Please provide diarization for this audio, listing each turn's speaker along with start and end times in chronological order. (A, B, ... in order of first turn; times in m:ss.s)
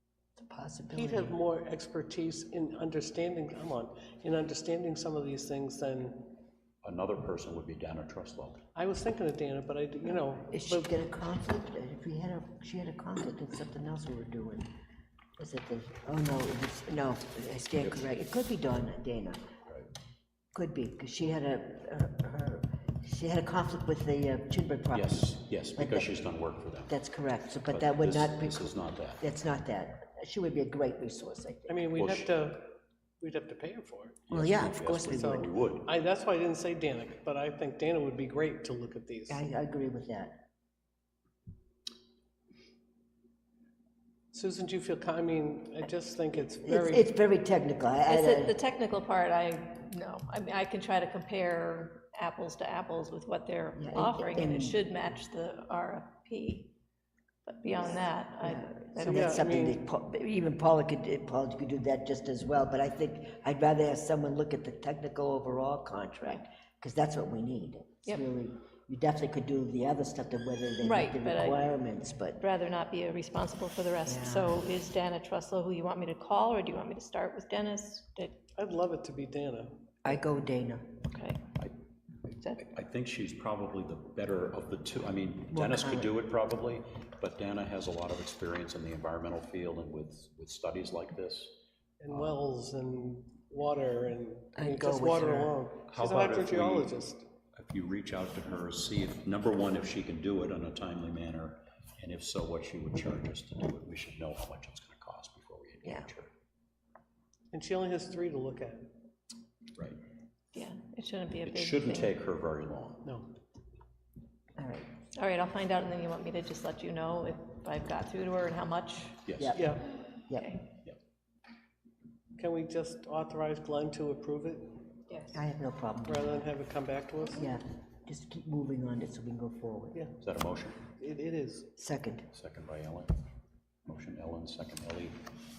0:00.4-0:01.4 A
0:00.9-0:06.4 B
0:06.8-0:08.6 C
0:08.8-0:10.9 B
0:10.5-0:14.7 A
0:15.4-0:19.4 A
0:17.8-0:18.1 C
0:20.5-0:26.1 A
0:24.9-0:27.0 C
0:26.9-0:31.9 A
0:27.5-0:29.2 C
0:31.7-0:34.2 B
0:32.0-0:32.3 C
0:34.3-0:35.9 C
0:34.3-0:35.5 A
0:35.1-0:39.4 B
0:39.3-0:40.4 A
0:44.3-0:47.1 B
0:46.6-0:48.6 A
0:48.1-0:56.7 D
0:53.8-0:54.8 A
0:57.4-0:59.5 D
0:57.8-1:12.4 A
0:59.1-0:59.8 B
1:10.8-1:11.7 D
1:12.4-1:18.4 D
1:14.1-1:14.6 A
1:18.6-1:19.8 B
1:20.0-1:20.9 A
1:21.0-1:21.4 D
1:22.3-1:31.6 C
1:25.5-1:26.1 A
1:32.0-1:37.3 B
1:32.1-1:32.4 C
1:34.6-1:35.6 A
1:35.9-1:36.9 C
1:37.6-1:46.3 C
1:47.5-1:48.9 B
1:50.5-1:52.1 D
1:51.4-1:53.1 C
1:53.0-1:53.3 B
1:54.6-1:54.9 A
1:55.1-1:59.2 D
1:59.3-1:59.6 C
1:59.4-2:00.6 A
1:59.6-1:59.9 B
2:00.3-2:00.6 D
2:02.4-2:04.9 B
2:05.1-2:05.4 D
2:05.3-2:06.5 A
2:06.1-2:07.5 B
2:07.4-2:10.0 A
2:10.2-2:10.8 C
2:11.0-2:11.7 B
2:11.8-2:12.3 A
2:12.3-2:13.1 C
2:13.9-2:15.2 C